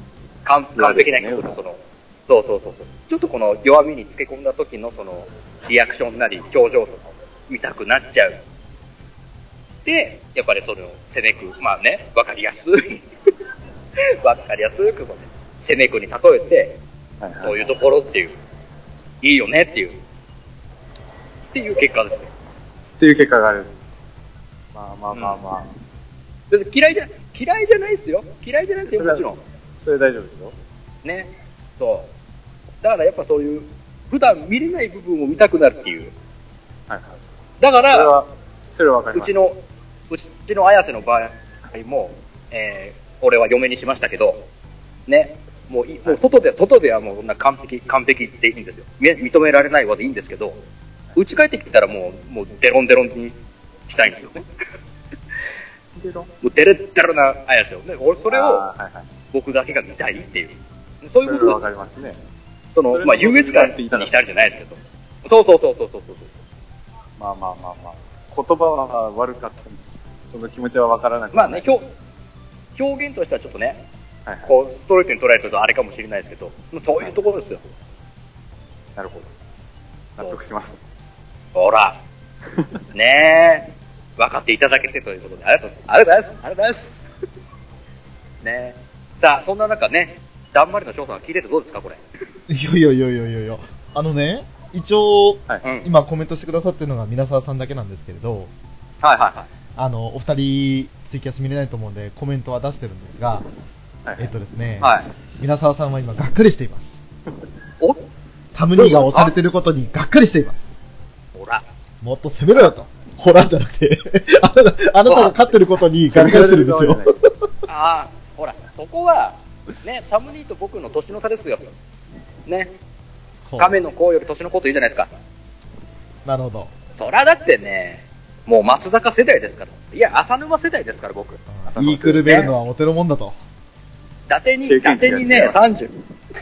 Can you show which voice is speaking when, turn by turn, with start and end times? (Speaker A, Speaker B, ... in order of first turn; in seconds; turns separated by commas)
Speaker A: 0.4-8.4, Speaker B: 0.8-1.5, Speaker A: 9.8-13.0, Speaker A: 14.2-16.8, Speaker B: 17.2-17.8, Speaker A: 17.4-18.4, Speaker A: 19.2-20.0, Speaker A: 21.5-22.3, Speaker B: 23.0-23.8, Speaker B: 24.7-25.7, Speaker A: 25.1-25.4, Speaker A: 26.5-29.4, Speaker B: 28.9-29.3, Speaker B: 29.8-30.5, Speaker A: 31.0-32.1, Speaker A: 32.8-36.1, Speaker B: 36.9-37.2, Speaker A: 37.6-38.1, Speaker B: 37.9-39.3, Speaker A: 39.1-44.5, Speaker A: 45.1-50.6, Speaker A: 51.1-54.5, Speaker B: 56.0-56.3, Speaker A: 56.4-58.6, Speaker B: 58.3-59.1, Speaker A: 59.3-61.6, Speaker B: 61.2-62.2, Speaker A: 62.7-66.4, Speaker B: 62.9-64.1, Speaker B: 67.2-71.7, Speaker A: 71.3-71.9, Speaker A: 72.7-73.8, Speaker B: 74.2-74.5, Speaker A: 74.5-77.6, Speaker B: 79.0-79.3, Speaker B: 80.2-80.8, Speaker A: 81.5-82.0, Speaker A: 82.9-86.9, Speaker A: 88.4-92.0, Speaker C: 92.5-98.5, Speaker A: 95.6-95.9, Speaker A: 99.0-99.5, Speaker C: 99.8-103.5, Speaker B: 104.0-104.3, Speaker C: 104.2-107.0, Speaker A: 104.8-105.1, Speaker C: 108.5-110.7, Speaker A: 108.8-109.3, Speaker A: 111.3-111.6, Speaker C: 112.0-117.0, Speaker A: 115.0-115.3, Speaker B: 116.1-117.2, Speaker A: 117.7-121.7, Speaker A: 122.5-122.8, Speaker C: 123.5-123.8, Speaker A: 123.6-125.1, Speaker C: 126.2-126.7, Speaker A: 127.0-132.5, Speaker C: 131.5-133.3, Speaker B: 131.8-132.3, Speaker A: 134.3-135.9, Speaker B: 134.7-135.7